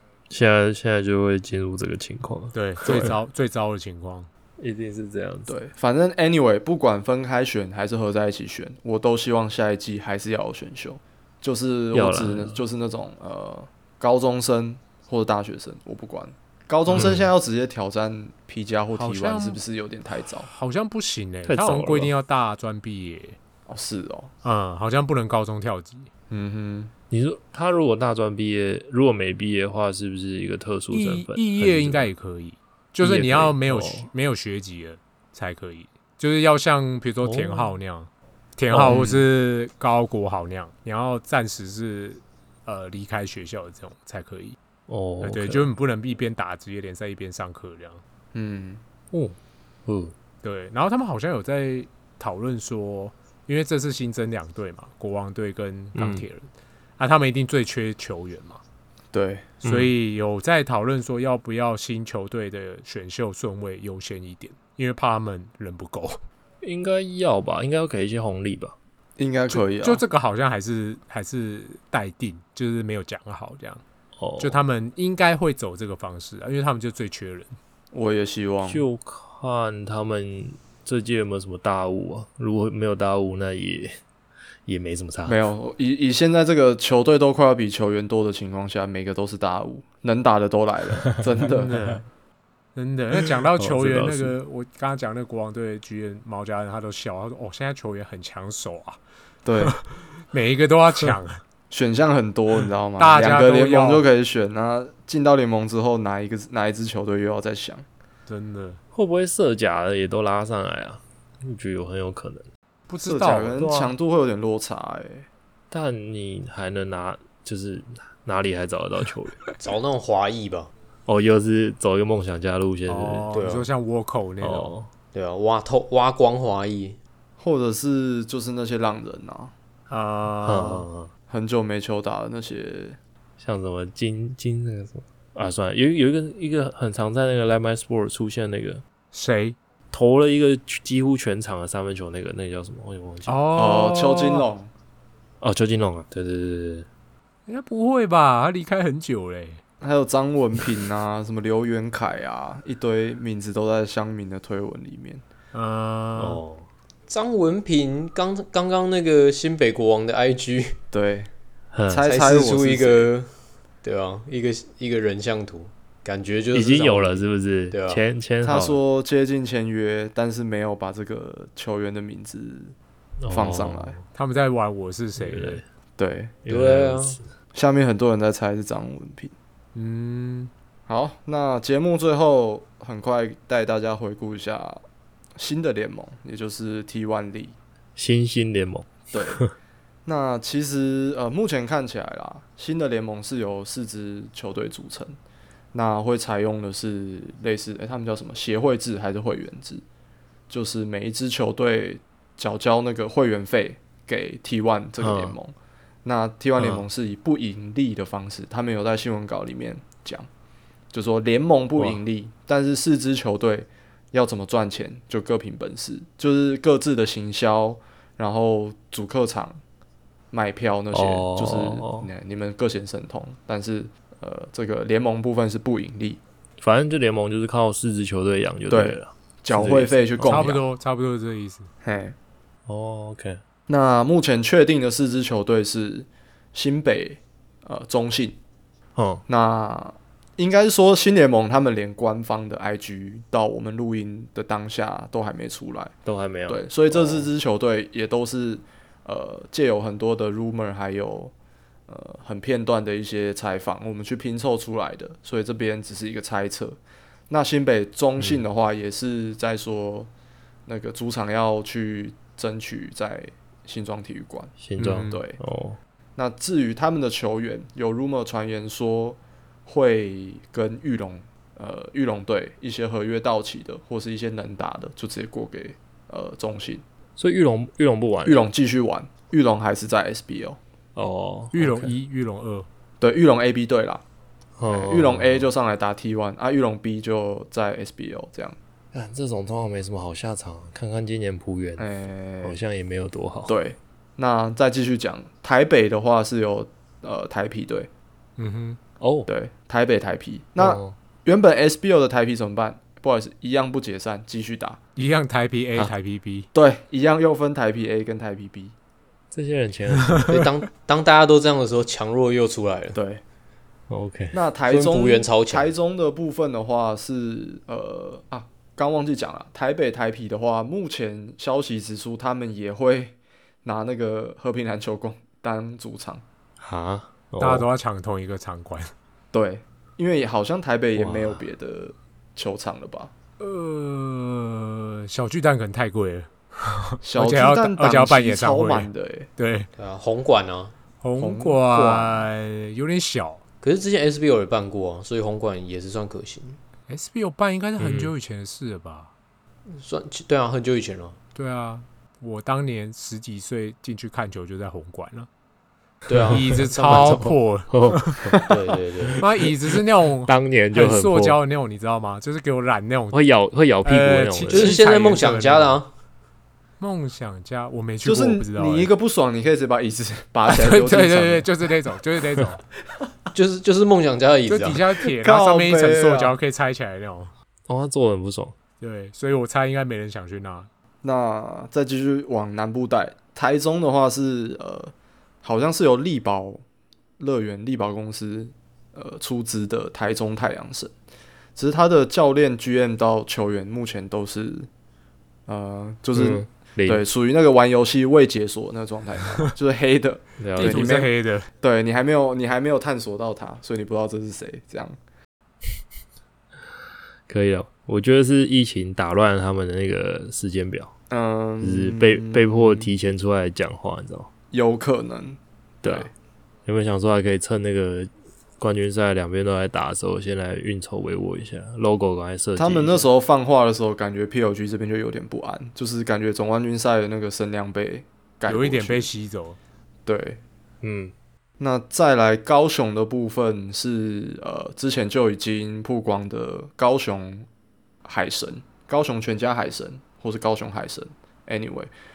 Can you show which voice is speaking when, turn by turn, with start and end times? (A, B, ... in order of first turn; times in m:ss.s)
0:00.3-0:03.1 A
0:02.5-0:04.3 B
0:04.6-0:05.6 A
0:05.5-0:20.5 C
0:11.9-0:12.6 A
0:16.9-0:17.3 A
0:18.9-0:19.6 B
0:20.4-0:23.4 B
0:21.5-0:22.1 A
0:23.7-0:24.3 C
0:24.4-0:26.1 B
0:26.3-0:26.9 C
0:27.1-0:32.1 A
0:30.9-0:44.6 B
0:33.0-0:34.1 A
0:37.2-0:37.8 A
0:38.7-0:39.1 A
0:38.8-0:39.3 C
0:44.9-0:45.7 A
0:45.2-0:48.0 B
0:48.3-0:48.8 C
0:49.1-0:50.1 A
0:50.4-0:58.6 B
0:56.0-0:56.3 A
0:59.1-0:59.5 C
0:59.6-0:59.9 A
0:59.6-1:06.2 B
1:06.6-1:08.8 A
1:09.2-1:10.0 C
1:09.5-1:13.8 B
1:14.2-1:14.6 A
1:14.4-1:17.6 B
1:17.9-1:18.8 C
1:18.6-1:24.0 A
1:24.7-1:25.4 A
1:25.3-1:32.0 C
1:31.4-1:32.0 B
1:32.8-1:39.0 B
1:33.6-1:34.4 A
1:39.4-1:39.8 C
1:39.6-1:41.4 B
1:41.7-1:47.8 C
1:43.0-1:44.0 B
1:48.3-1:48.8 B
1:48.9-1:52.5 A
1:52.9-1:53.6 B
1:53.0-1:55.3 C
1:53.6-1:53.9 A
1:55.7-1:59.5 A
1:59.6-2:00.7 D
2:01.1-2:03.3 A
2:02.9-2:04.7 B
2:03.3-2:03.7 D
2:04.4-2:04.9 A
2:05.1-2:07.0 D
2:07.4-2:09.5 C
2:09.9-2:10.9 B
2:10.4-2:11.1 A
2:11.3-2:13.0 C
2:13.4-2:18.8 A
2:19.1-2:19.6 B
2:19.9-2:23.4 A
2:23.3-2:24.5 B
2:23.6-2:24.7 C
2:25.4-2:26.9 A
2:27.5-2:29.6 B
2:29.8-2:35.2 C
2:35.5-2:36.4 B
2:36.2-2:36.7 A
2:37.1-2:40.8 D
2:40.9-2:41.3 C
2:41.7-2:42.0 A
2:41.9-2:43.1 C
2:42.0-2:43.3 D
2:43.8-2:48.0 D
2:46.5-2:48.8 A
2:48.4-2:52.8 C
2:53.2-2:54.0 A
2:53.3-2:54.0 C
2:54.1-2:55.6 B
2:55.2-2:55.6 A
2:56.0-2:56.4 C
2:56.4-2:57.3 A
2:56.5-2:57.2 D
2:57.5-2:59.3 C
2:59.7-3:00.5 B
3:00.9-3:04.8 C
3:05.4-3:07.6 C
3:08.0-3:09.5 A
3:09.1-3:09.4 C
3:10.1-3:15.2 C
3:15.7-3:19.8 C
3:20.5-3:30.3 C
3:25.0-3:25.4 A
3:30.9-3:39.6 C
3:40.3-3:46.2 C
3:40.9-3:42.1 A
3:46.6-3:50.5 A
3:48.7-3:50.6 C
3:50.2-3:51.7 B
3:51.8-3:52.2 C
3:52.7-3:53.4 A
3:53.7-3:58.4 C
3:59.0-3:59.2 A
3:59.3-4:05.9 C
4:06.0-4:07.3 A
4:06.5-4:11.3 C
4:11.9-4:20.1 C
4:20.7-4:25.4 C
4:24.6-4:25.8 A
4:24.8-4:25.2 B
4:26.2-4:36.8 C
4:37.2-4:38.4 A
4:38.2-4:40.6 C
4:41.0-4:41.9 A
4:41.5-4:42.7 B
4:43.0-4:44.0 C
4:44.6-4:45.5 A
4:44.7-4:48.6 C
4:48.9-4:51.9 A
4:51.8-4:52.6 C
4:52.4-4:53.5 A
4:53.5-4:57.9 C
4:58.4-4:58.8 B
4:59.0-4:59.3 A
4:59.3-5:04.8 C
5:00.6-5:01.0 A
5:05.0-5:06.5 B
5:06.5-5:08.7 C
5:09.3-5:10.3 A
5:10.3-5:13.0 D
5:12.9-5:13.2 C
5:13.9-5:14.4 A
5:14.3-5:26.2 C
5:14.7-5:15.7 D
5:26.6-5:27.7 A
5:27.4-5:28.9 B
5:29.3-5:33.1 C
5:31.0-5:31.4 A
5:33.4-5:39.7 B
5:37.0-5:39.3 C
5:39.8-5:40.7 D
5:41.0-5:43.4 B
5:41.2-5:42.3 C
5:43.6-5:46.6 D
5:46.9-5:49.1 B
5:47.8-5:48.1 A
5:49.7-5:51.2 D
5:51.4-5:55.3 B
5:56.1-5:57.3 D
5:56.1-5:58.4 A
5:56.3-5:58.4 B
5:58.4-5:59.2 D
5:59.2-6:03.2 B
6:00.2-6:01.4 A
6:03.1-6:04.8 A
6:03.8-6:05.8 B
6:04.5-6:05.9 D
6:06.8-6:08.9 B
6:08.0-6:11.5 C
6:10.5-6:12.6 B
6:13.3-6:14.9 D
6:14.5-6:17.3 B
6:15.0-6:16.4 C
6:17.7-6:18.6 A
6:18.8-6:20.7 B
6:21.0-6:26.6 C
6:27.2-6:30.9 C
6:31.6-6:34.7 C
6:35.5-6:45.0 C
6:36.1-6:37.0 A
6:40.4-6:40.9 A
6:40.6-6:41.5 B
6:47.3-6:50.9 A
6:51.1-6:52.9 C
6:51.6-6:54.3 A
6:54.5-6:56.1 C
6:55.8-6:56.1 A
6:56.7-7:03.1 A
7:02.6-7:09.1 C
7:08.5-7:09.6 B
7:10.1-7:10.4 C
7:10.8-7:11.1 A
7:11.6-7:17.5 C
7:18.0-7:21.9 C